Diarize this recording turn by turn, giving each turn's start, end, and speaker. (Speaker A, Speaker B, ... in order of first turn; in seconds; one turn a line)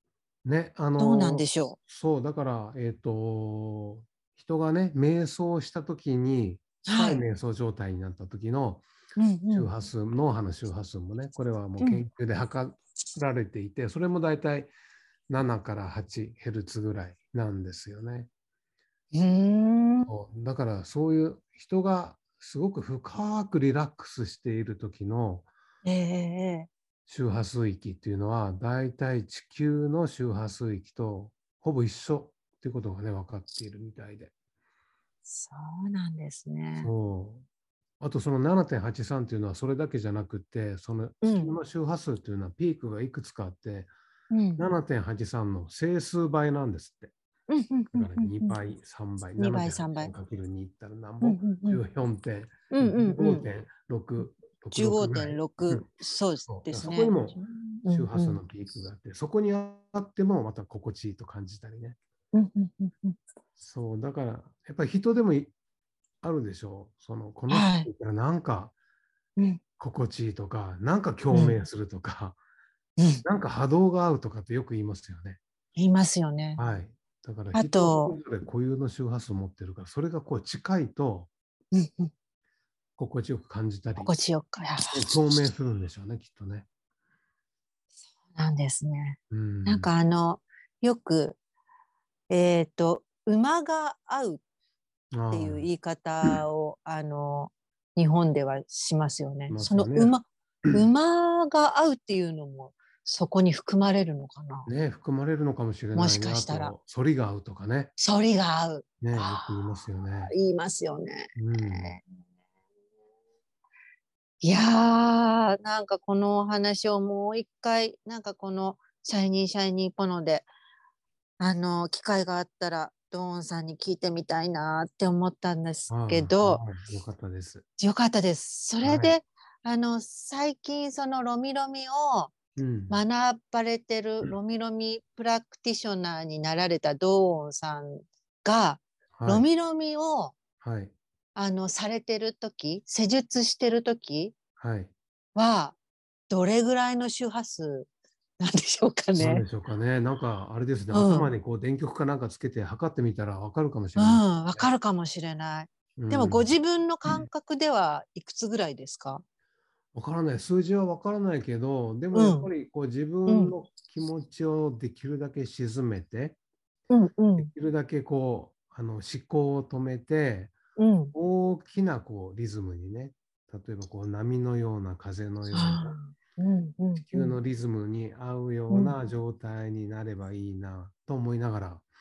Speaker A: 0.5-8.9
Speaker B: 1.0-1.8
Speaker B: 6.8-7.3
Speaker B: 9.2-9.7
Speaker A: 9.5-14.7
Speaker A: 15.3-18.3
Speaker B: 19.1-20.1
Speaker A: 20.1-25.5
Speaker B: 25.8-26.7
Speaker A: 27.1-34.3
Speaker B: 35.2-36.9
Speaker A: 36.8-37.5
Speaker A: 38.0-43.9
Speaker B: 41.2-41.6
Speaker B: 44.3-44.7
Speaker A: 44.6-47.1
Speaker B: 47.5-48.6
Speaker A: 47.9-55.9
Speaker B: 49.4-50.1
Speaker B: 51.2-51.8
Speaker B: 52.7-53.5
Speaker B: 54.7-58.4
Speaker A: 56.5-62.0
Speaker B: 62.3-63.2
Speaker A: 63.6-65.5
Speaker A: 66.2-68.7
Speaker B: 67.5-67.9
Speaker B: 69.4-69.6
Speaker A: 69.8-72.4
Speaker B: 71.3-71.6
Speaker B: 73.0-73.2
Speaker A: 73.2-75.4
Speaker B: 75.8-76.6
Speaker A: 76.6-81.3
Speaker B: 77.5-78.2
Speaker B: 81.7-82.1
Speaker A: 83.0-84.2
Speaker B: 84.0-85.2
Speaker A: 84.9-86.7
Speaker B: 88.3-91.4
Speaker A: 89.3-89.9
Speaker B: 92.3-94.4
Speaker A: 95.1-95.7
Speaker B: 95.3-104.7
Speaker A: 99.5-100.8
Speaker A: 104.7-107.9
Speaker B: 106.0-106.8
Speaker B: 108.0-109.7
Speaker A: 109.0-110.3
Speaker B: 110.3-112.0
Speaker A: 111.4-112.0
Speaker B: 114.4-120.5
Speaker B: 121.4-126.7
Speaker A: 125.9-127.7
Speaker B: 127.8-132.3
Speaker A: 128.8-129.2
Speaker A: 132.6-133.0
Speaker B: 132.9-140.4
Speaker A: 139.2-139.5
Speaker A: 140.6-140.9
Speaker B: 141.3-144.4
Speaker A: 144.6-144.9
Speaker B: 145.3-145.8
Speaker B: 146.3-147.9
Speaker B: 148.4-149.4
Speaker A: 149.2-154.7
Speaker B: 150.9-151.3
Speaker B: 154.0-159.2
Speaker A: 156.0-156.5
Speaker A: 159.9-166.4
Speaker B: 162.1-162.5
Speaker B: 163.3-163.5
Speaker B: 166.9-167.5
Speaker A: 167.4-170.6
Speaker B: 170.8-171.1
Speaker A: 171.1-175.9
Speaker B: 175.5-177.3
Speaker A: 177.1-181.9
Speaker B: 178.7-179.0